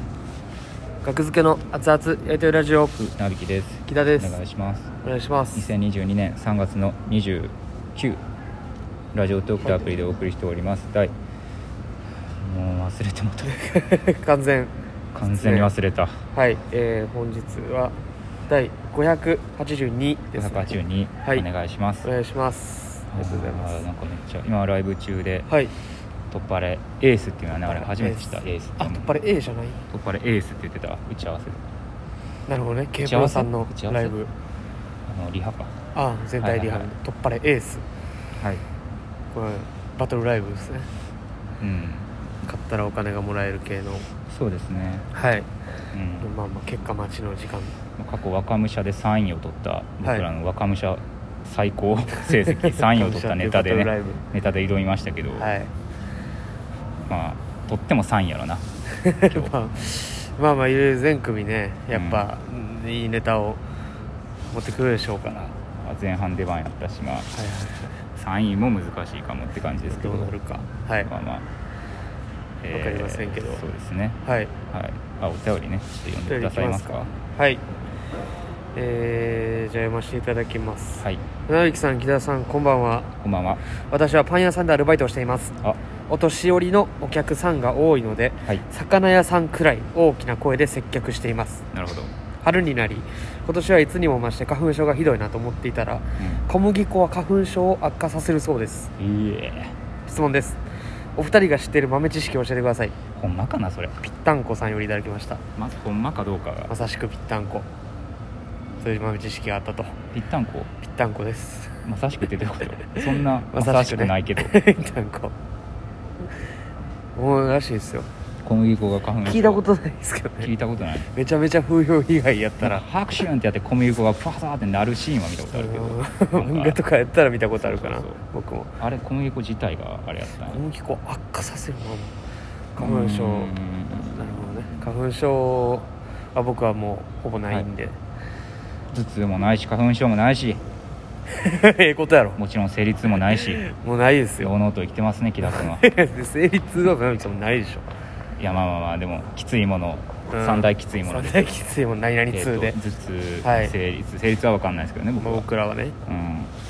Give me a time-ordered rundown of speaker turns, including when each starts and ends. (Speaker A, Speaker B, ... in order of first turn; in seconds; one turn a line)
Speaker A: 1.0-3.0
Speaker B: 3.0-4.9
Speaker A: 3.9-4.4
Speaker A: 5.0-5.7
Speaker B: 5.5-8.2
Speaker B: 9.1-11.1
Speaker B: 12.3-13.5
Speaker A: 13.5-14.7
Speaker B: 15.1-16.2
Speaker A: 15.2-15.7
Speaker A: 16.3-17.9
Speaker A: 18.5-21.4
Speaker B: 20.3-22.1
Speaker A: 22.0-23.8
Speaker B: 23.1-25.5
Speaker A: 25.5-25.7
Speaker B: 26.3-29.1
Speaker A: 27.7-29.8
Speaker B: 29.9-31.6
Speaker A: 32.5-34.3
Speaker B: 33.0-34.1
Speaker B: 35.1-35.7
Speaker A: 35.9-37.8
Speaker B: 36.4-36.9
Speaker A: 39.3-40.9
Speaker B: 41.6-42.1
Speaker A: 42.4-44.1
Speaker B: 44.3-45.1
Speaker A: 45.1-45.5
Speaker B: 45.9-46.3
Speaker A: 46.2-47.8
Speaker B: 48.0-55.5
Speaker A: 52.2-54.2
Speaker A: 55.4-55.7
Speaker B: 57.1-58.6
Speaker A: 59.0-63.6
Speaker B: 59.2-59.5
Speaker B: 61.9-62.3
Speaker A: 64.5-65.5
Speaker B: 65.8-67.3
Speaker A: 67.3-67.9
Speaker B: 68.1-70.3
Speaker A: 69.8-71.1
Speaker B: 71.0-71.5
Speaker B: 72.6-74.2
Speaker A: 72.7-73.6
Speaker A: 74.2-74.5
Speaker B: 74.7-77.1
Speaker A: 76.3-77.6
Speaker A: 78.7-83.1
Speaker B: 83.2-83.6
Speaker A: 83.7-91.7
Speaker B: 91.7-92.1
Speaker A: 92.4-98.9
Speaker B: 96.2-96.4
Speaker B: 99.0-99.7
Speaker A: 100.0-100.6
Speaker A: 101.2-103.0
Speaker B: 103.2-104.0
Speaker A: 104.0-105.4
Speaker B: 105.5-106.7
Speaker A: 106.7-107.7
Speaker A: 108.8-110.0
Speaker B: 110.1-110.7
Speaker A: 110.8-111.8
Speaker B: 111.8-114.5
Speaker A: 112.8-115.3
Speaker A: 117.2-118.1
Speaker B: 118.4-119.6
Speaker A: 119.2-120.5
Speaker B: 120.4-121.1
Speaker A: 121.1-122.8
Speaker B: 122.6-126.8
Speaker A: 125.5-128.8
Speaker B: 127.6-128.2
Speaker B: 128.8-130.6
Speaker A: 130.5-132.1
Speaker A: 132.7-138.0
Speaker B: 132.8-134.9
Speaker B: 138.9-140.6
Speaker A: 141.3-142.4
Speaker B: 142.4-143.6
Speaker A: 143.3-144.5
Speaker B: 144.4-145.9
Speaker A: 145.4-147.9
Speaker B: 148.4-151.4
Speaker A: 150.3-152.8
Speaker B: 152.3-155.5
Speaker A: 153.4-153.7
Speaker A: 155.2-155.9
Speaker B: 156.0-156.5